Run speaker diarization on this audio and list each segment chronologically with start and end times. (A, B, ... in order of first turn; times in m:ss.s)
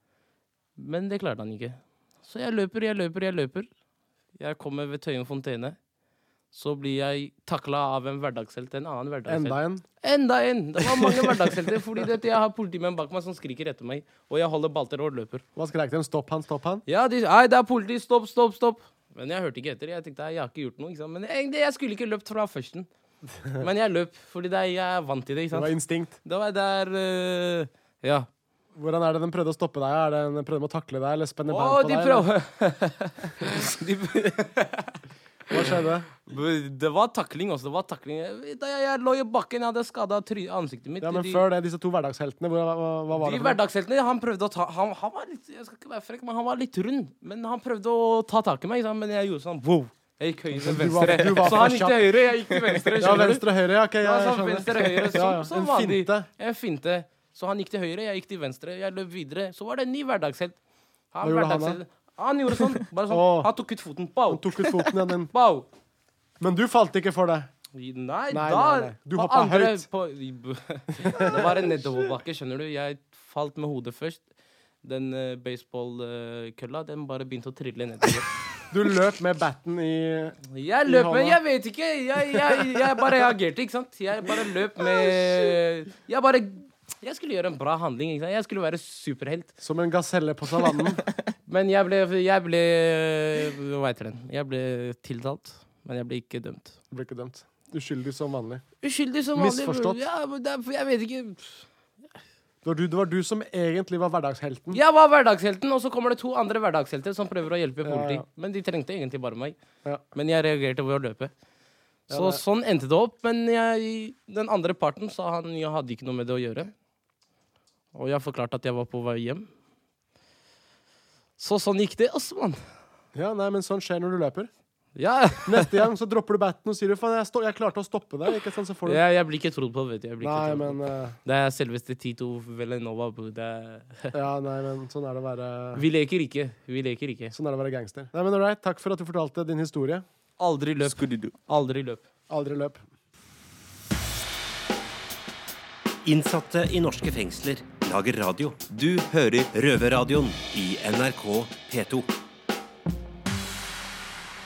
0:00.8-0:03.7 A
0:04.4-0:05.8 A
0:06.5-0:15.4 A
0:09.3-0:09.8 B
0:10.8-0:11.5 B
0:15.6-0:16.8 B
0:16.9-0:22.9 A
0:23.6-0:28.3 A
0:25.5-0:26.2 B
0:28.7-0:32.3 B
0:31.5-0:35.0 A
0:35.5-0:36.1 B
0:36.2-0:41.4 A
0:41.0-0:43.6 B
0:43.1-1:00.6 A
0:50.5-0:56.3 B
1:01.1-1:04.7 A
1:01.2-1:01.8 B
1:03.1-1:03.5 B
1:04.3-1:05.3 B
1:05.3-1:05.6 A
1:06.4-1:07.5 B
1:07.7-1:14.2 A
1:08.3-1:09.9 B
1:11.0-1:11.4 B
1:14.8-1:18.3 A
1:18.7-1:21.4 B
1:20.5-1:29.5 A
1:29.6-1:31.0 B
1:31.5-1:36.8 A
1:36.9-1:38.6 B
1:38.8-1:41.6 A
1:39.3-1:40.0 B
1:42.6-1:44.8 B
1:44.7-1:49.6 A
1:47.8-1:48.2 B
1:50.1-1:51.3 A
1:52.1-1:52.4 B
1:52.1-1:56.7 A
1:57.9-1:59.5 A
2:01.4-2:02.6 A
2:03.1-2:04.5 B
2:05.0-2:05.7 A
2:05.4-2:09.0 B
2:08.8-2:14.1 A
2:10.2-2:11.2 B
2:14.1-2:15.8 B
2:15.7-2:17.3 A
2:17.3-2:20.0 B
2:20.4-2:22.0 A
2:20.8-2:21.3 C
2:22.3-2:22.8 B
2:26.0-2:32.1 C